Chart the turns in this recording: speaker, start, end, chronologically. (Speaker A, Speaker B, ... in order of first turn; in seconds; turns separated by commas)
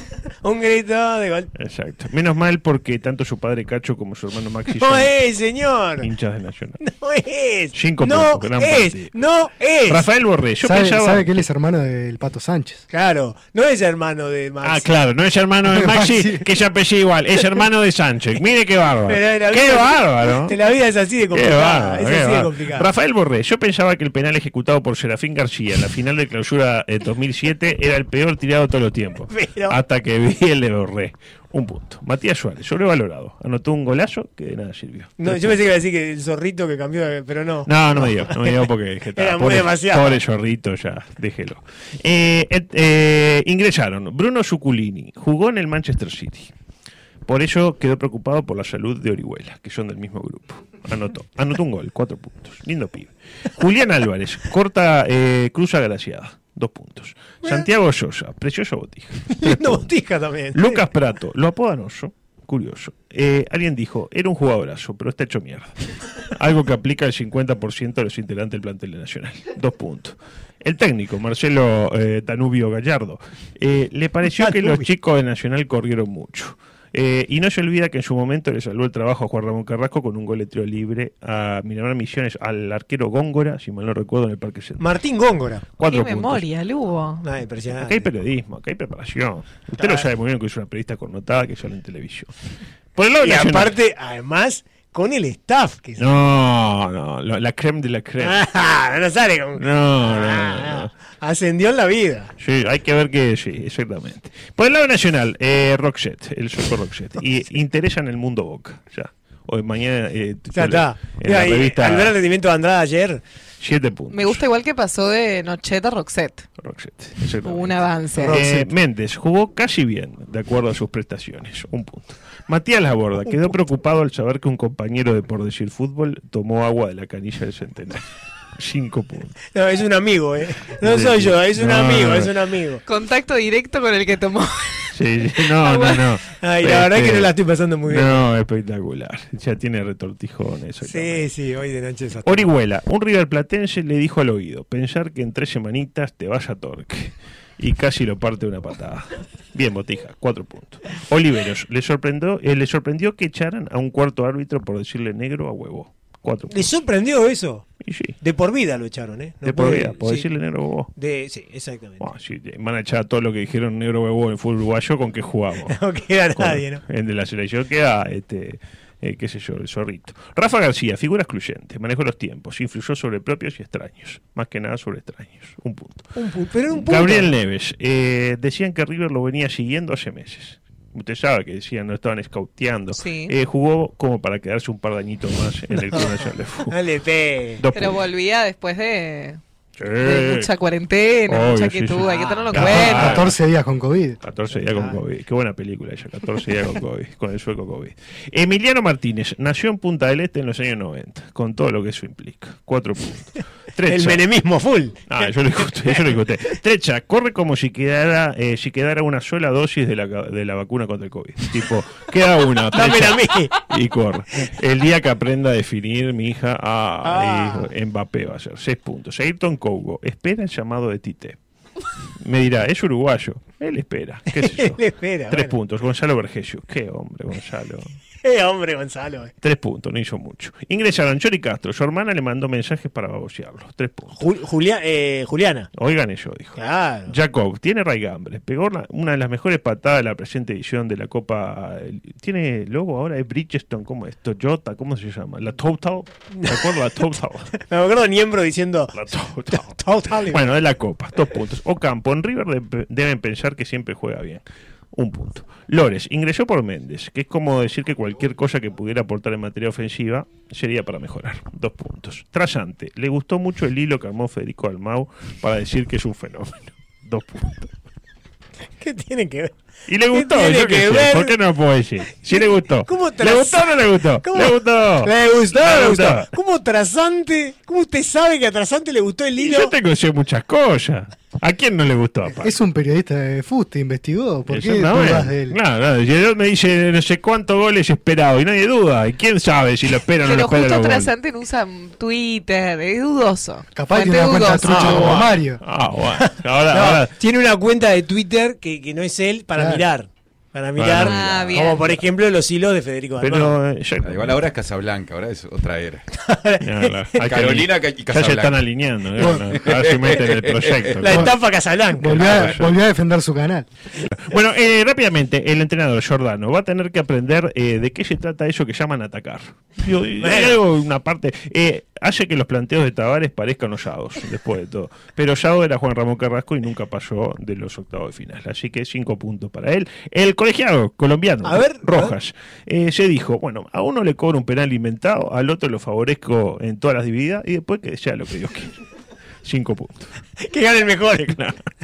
Speaker A: 0.4-1.5, Speaker B: 1.6-5.2, Speaker A: 4.7-6.1, Speaker B: 6.0-6.8, Speaker A: 6.8-10.1, Speaker B: 7.7-9.1, Speaker B: 9.9-11.4, Speaker C: 10.6-12.9, Speaker A: 12.9-14.9, Speaker B: 14.6-20.6, Speaker C: 15.6-16.5, Speaker A: 19.1-22.9, Speaker B: 21.3-35.6, Speaker A: 29.3-29.8, Speaker A: 35.2-40.2, Speaker B: 37.7-46.5, Speaker B: 47.3-59.9, Speaker A: 57.4-57.7, Speaker A: 59.3-60.8, Speaker B: 60.5-84.9, Speaker A: 74.2-74.9, Speaker A: 84.8-85.7, Speaker B: 85.8-86.5, Speaker D: 85.8-87.2, Speaker A: 87.2-88.1, Speaker B: 87.7-92.3, Speaker A: 89.8-90.1, Speaker B: 93.0-93.8, Speaker A: 93.2-96.2, Speaker B: 96.0-98.4, Speaker A: 98.2-102.3, Speaker B: 99.6-100.9, Speaker B: 102.4-112.2, Speaker A: 110.5-113.2, Speaker B: 113.6-114.4, Speaker D: 114.1-116.5, Speaker B: 116.6-128.0, Speaker D: 117.4-118.4, Speaker A: 118.1-118.7, Speaker B: 128.6-129.4, Speaker A: 129.5-132.8, Speaker B: 130.8-132.3, Speaker D: 132.8-136.1, Speaker B: 134.9-137.3, Speaker A: 136.3-138.3, Speaker B: 137.8-141.3, Speaker A: 140.8-142.5, Speaker B: 142.2-156.7, Speaker A: 156.5-157.7, Speaker B: 157.8-158.2, Speaker A: 158.2-160.3, Speaker B: 159.4-160.9, Speaker A: 161.0-162.1, Speaker B: 162.0-165.8, Speaker A: 165.6-166.8, Speaker B: 166.3-176.1, Speaker A: 176.2-177.3, Speaker B: 176.7-186.8, Speaker D: 182.9-183.3, Speaker A: 185.8-187.7, Speaker B: 187.6-188.0, Speaker D: 187.7-189.4, Speaker B: 189.8-190.5, Speaker D: 190.0-193.3, Speaker B: 191.3-193.4, Speaker C: 192.5-194.2, Speaker B: 194.2-204.2, Speaker A: 194.5-195.0, Speaker A: 203.9-206.6, Speaker B: 205.1-221.4, Speaker A: 212.7-213.6, Speaker A: 217.0-217.7, Speaker B: 222.2-227.9, Speaker A: 224.4-225.5, Speaker A: 228.2-229.3, Speaker B: 229.4-234.3, Speaker A: 234.2-235.7, Speaker B: 235.8-247.5, Speaker A: 236.6-237.2, Speaker A: 246.4-250.5, Speaker B: 248.9-254.4, Speaker B: 254.9-267.7, Speaker A: 268.8-269.5, Speaker B: 269.9-276.3, Speaker A: 270.1-271.4, Speaker A: 272.2-279.7, Speaker B: 279.4-282.5, Speaker C: 282.4-285.6, Speaker B: 284.5-291.1, Speaker D: 290.2-295.2, Speaker C: 293.7-295.6, Speaker A: 294.6-295.0, Speaker B: 294.7-297.1, Speaker A: 296.1-303.5, Speaker C: 299.6-299.9, Speaker B: 300.8-301.9, Speaker D: 301.0-301.9, Speaker B: 303.2-304.5, Speaker E: 304.0-306.0, Speaker A: 306.1-307.1, Speaker B: 306.6-311.4, Speaker E: 307.2-311.1, Speaker A: 311.0-312.2, Speaker C: 311.9-313.7, Speaker B: 312.1-312.8, Speaker E: 312.2-312.6, Speaker B: 314.0-338.8, Speaker A: 320.2-320.6, Speaker A: 331.4-332.1, Speaker B: 339.4-340.1, Speaker A: 340.4-341.4